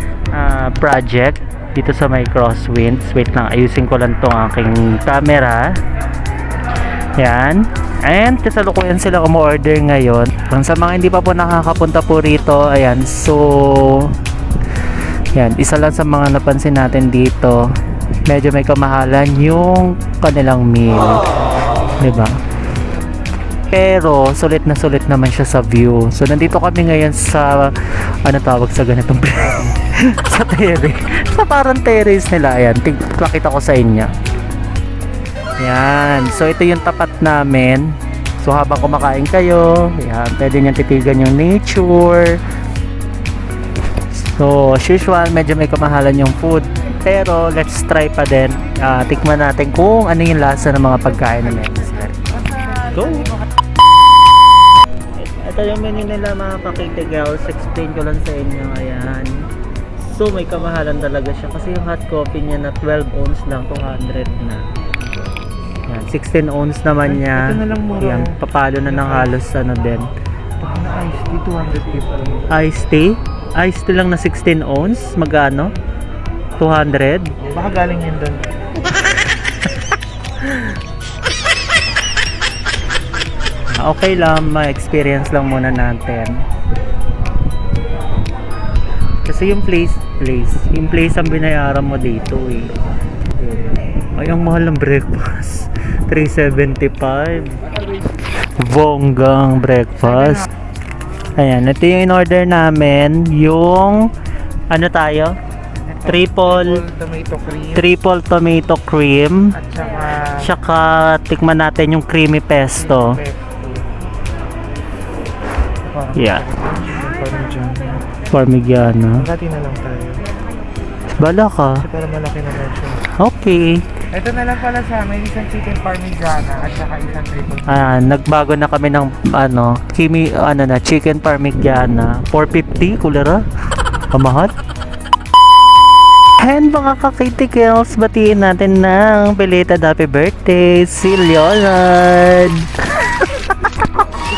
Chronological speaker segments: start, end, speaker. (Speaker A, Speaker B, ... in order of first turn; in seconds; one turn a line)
Speaker A: 0.3-5.8
Speaker A: 7.2-14.2
Speaker A: 15.2-17.7
Speaker A: 18.3-21.2
Speaker A: 22.0-22.4
Speaker A: 23.7-34.1
Speaker A: 35.6-42.4
Speaker A: 44.1-52.2
Speaker B: 52.3-53.0
Speaker A: 52.8-53.3
Speaker A: 55.1-59.5
Speaker A: 60.0-64.6
Speaker A: 65.9-70.1
Speaker B: 67.1-69.3
Speaker B: 70.6-72.4
Speaker A: 72.5-75.7
Speaker A: 76.6-77.3
Speaker B: 77.4-78.5
Speaker A: 80.4-80.7
Speaker A: 83.7-86.4
Speaker A: 89.2-92.8
Speaker A: 93.4-97.6
Speaker A: 98.5-100.5
Speaker A: 101.3-104.1
Speaker A: 104.7-105.4
Speaker B: 105.8-107.9
Speaker A: 106.0-106.8
Speaker A: 107.7-109.5
Speaker B: 109.6-110.5
Speaker A: 110.3-113.2
Speaker B: 112.8-113.8
Speaker B: 115.8-118.0
Speaker A: 116.1-116.5
Speaker A: 118.3-119.3
Speaker B: 119.2-120.2
Speaker A: 121.2-121.8
Speaker B: 121.8-123.0
Speaker A: 123.2-123.8
Speaker B: 124.1-127.7
Speaker A: 127.7-133.4
Speaker A: 134.1-134.5
Speaker A: 136.4-144.0